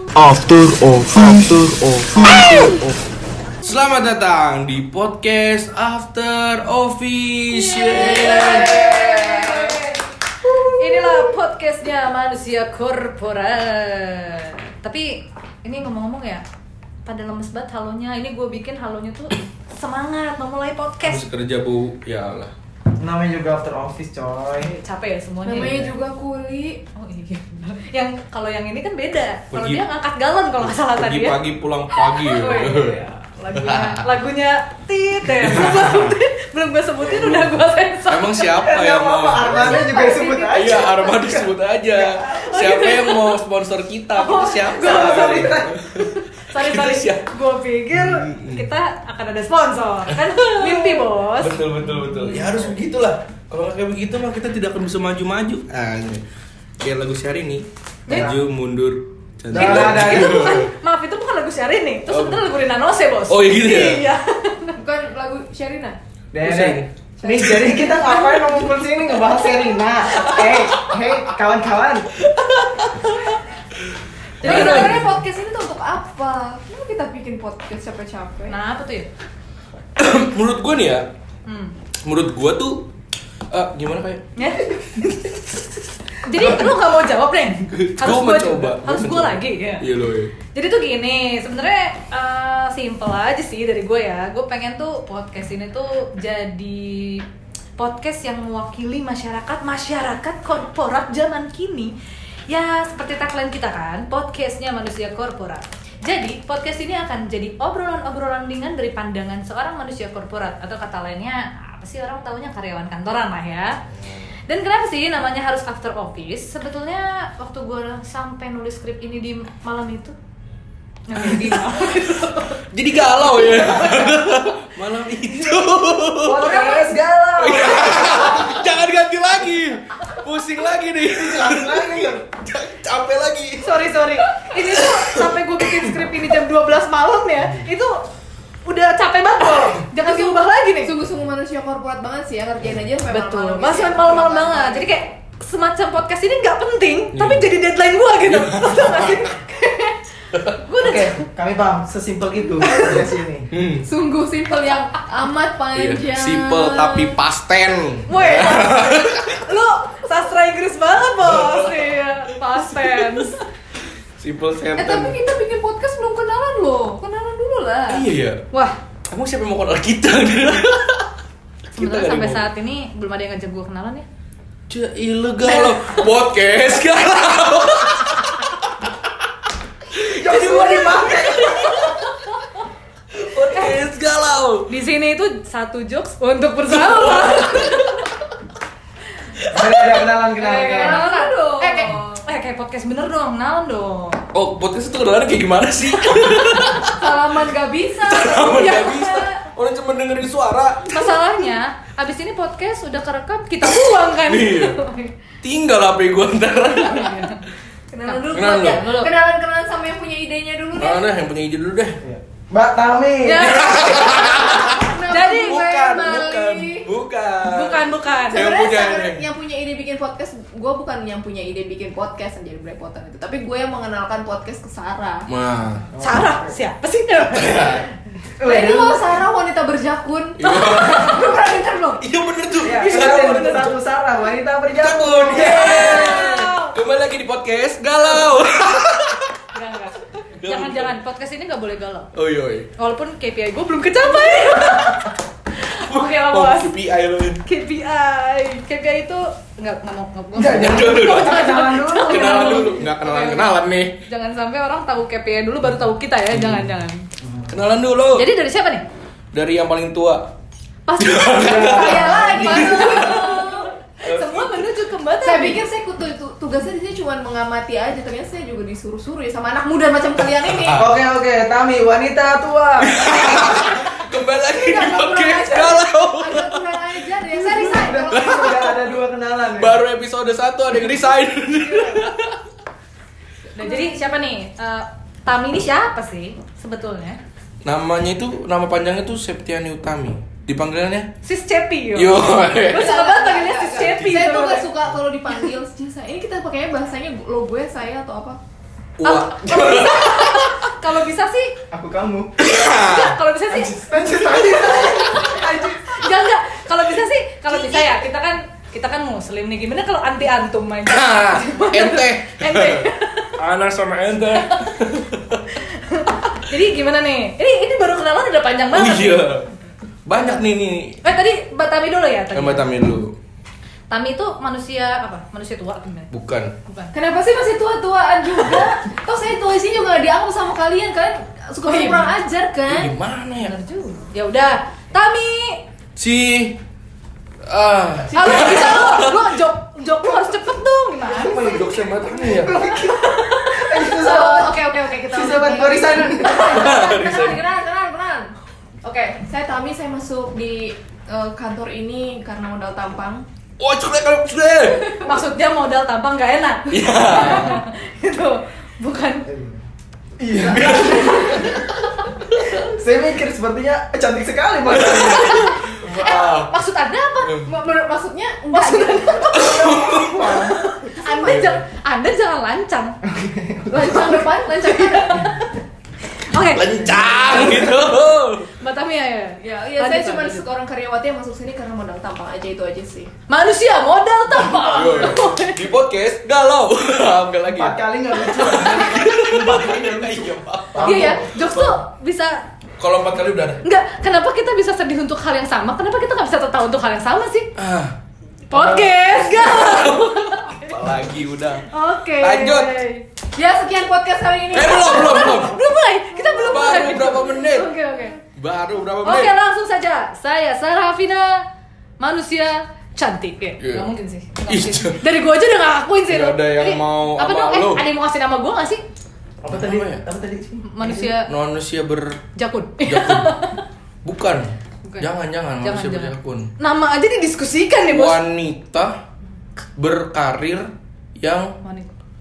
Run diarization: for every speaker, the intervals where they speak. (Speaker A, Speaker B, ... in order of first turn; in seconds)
Speaker A: 0.1-3.0
Speaker B: 2.3-2.7, 3.6-8.9, 21.0-22.5, 29.5-29.9, 30.6-33.0, 33.5-34.0, 35.4-36.0, 37.0-37.5, 38.1-39.9, 40.5-47.3, 47.9-48.7, 50.1-56.2, 56.8-60.7, 62.1-62.5, 63.3-64.1, 66.4-66.9, 70.3-70.8, 72.3-73.2, 74.4-75.2, 80.0-81.1, 82.0-82.9, 83.5-84.2, 87.7-90.3, 122.7-126.5, 127.4-135.8, 147.1-147.5, 148.3-149.2, 153.5-153.9, 155.8-159.4, 161.2-161.9, 164.2-165.2, 167.9-168.4, 169.1-171.1, 171.7-172.5, 174.7-178.9, 179.9-182.0, 183.1-184.7, 186.7-187.8, 189.4-190.1, 194.3-197.0, 198.0-200.9, 204.0-204.8, 205.4-207.3, 208.3-208.9, 210.8-212.0, 213.3-219.2, 225.3-225.9, 227.3-227.9, 230.4-231.3, 232.0-233.8, 234.7-239.3, 240.4-240.9, 242.1-242.7, 245.8-247.4, 250.4-253.9, 256.3-256.7, 257.5-258.3, 259.3-260.3, 261.0-263.4, 264.0-264.6, 270.4-270.9, 272.8-276.9, 278.1-278.9, 279.6-282.4, 287.6-291.1, 291.9-292.9, 293.8-294.2, 299.0-300.6, 302.4-303.2, 310.9-312.9, 313.4-315.4, 318.7-319.5, 320.1-321.0, 322.3-323.1, 326.1-326.5, 332.7-333.6, 336.0-336.6, 337.4-339.4, 341.1-342.6, 346.3-347.4, 353.6-355.0, 356.7-357.6, 360.4-361.6, 364.7-366.5, 367.2-367.5, 369.4-370.5, 371.2-371.6, 376.5-378.5, 384.5-391.8, 392.8-393.6, 397.6-397.9, 398.7-401.7, 402.2-402.8, 404.5-405.6, 406.4-407.7, 408.3-409.3, 413.6-413.9, 414.5-415.0, 416.1-417.9, 419.5-420.0, 420.8-422.2, 422.9-423.4, 424.0-426.5, 427.9-429.0, 429.8-431.6
Speaker C: 7.5-9.8, 25.4-26.8, 40.0-40.4, 64.8-66.0, 67.2-67.9, 74.4-78.6, 140.0-145.0, 153.8-157.2, 164.8-168.1, 190.4-192.1, 196.9-199.3, 207.9-211.1, 214.1-216.9, 218.2-225.3, 228.4-232.0, 261.7-263.7, 265.2-270.8, 274.4-278.8, 283.6-284.1, 292.7-298.4, 326.9-332.9, 338.1-338.9, 343.8-353.2, 367.4-371.5, 373.7-375.4, 379.4-383.1, 390.8-391.2, 403.3-405.6, 406.1-408.1
Speaker D: 7.8-10.0, 10.6-16.4, 17.1-21.3, 24.6-25.8, 27.0-31.4, 31.9-38.5, 39.6-41.0, 42.2-43.4, 44.1-52.6, 59.5-64.8, 74.5-75.0, 78.5-79.1, 81.5-81.8, 84.4-84.7, 86.2-89.8, 90.5-97.2, 97.8-101.9, 102.5-113.8, 114.5-120.2, 121.1-122.6, 123.3-124.6, 126.3-127.0, 133.6-138.0, 138.7-140.9, 143.1-151.2, 158.1-163.4, 171.8-174.1, 175.4-176.0, 184.7-188.0, 190.4-194.2, 198.6-199.1, 200.9-205.2, 206.8-207.4, 208.1-209.1, 213.2-215.6, 217.4-218.5, 226.0-227.9, 230.4-231.4, 232.8-233.7, 235.3-236.7, 239.5-242.1, 242.8-246.7, 247.4-257.1, 258.1-258.9, 260.9-265.6, 277.4-278.0, 281.6-282.0, 283.6-287.2, 291.2-294.7, 299.0-301.6, 302.7-313.4, 314.4-314.7, 315.6-319.5, 321.0-322.7, 323.9-326.1, 326.7-326.9, 331.6-332.1, 333.4-335.6, 338.1-341.6, 342.9-343.8, 354.9-359.3, 361.3-361.7, 365.0-367.4, 368.5-369.6, 370.4-373.0, 374.7-375.4, 376.2-377.5, 378.6-380.5, 383.3-385.6, 390.8-392.4, 393.6-397.5, 398.5-400.8, 401.7-403.1, 404.7-408.2, 409.0-411.4, 412.0-418.8, 420.6-421.3, 422.4-423.6, 425.6-428.2, 431.6-431.9
Speaker E: 23.0-24.7, 38.5-42.3, 44.7-45.8, 58.1-58.4, 59.5-60.7, 66.3-72.1, 74.4-74.8, 126.2-128.7, 131.1-132.2, 150.8-153.5, 180.2-181.9, 189.5-191.1, 212.0-213.8, 225.9-226.6, 228.4-229.2, 232.6-236.2, 250.3-252.8, 257.2-257.5, 261.4-263.0, 270.8-273.4, 277.5-279.8, 301.7-302.3, 303.5-305.8, 341.4-346.9, 359.3-359.6, 360.2-361.5, 362.5-365.9, 369.3-370.7, 373.1-374.3, 377.0-377.7, 387.5-391.2, 398.5-399.1, 419.4-420.9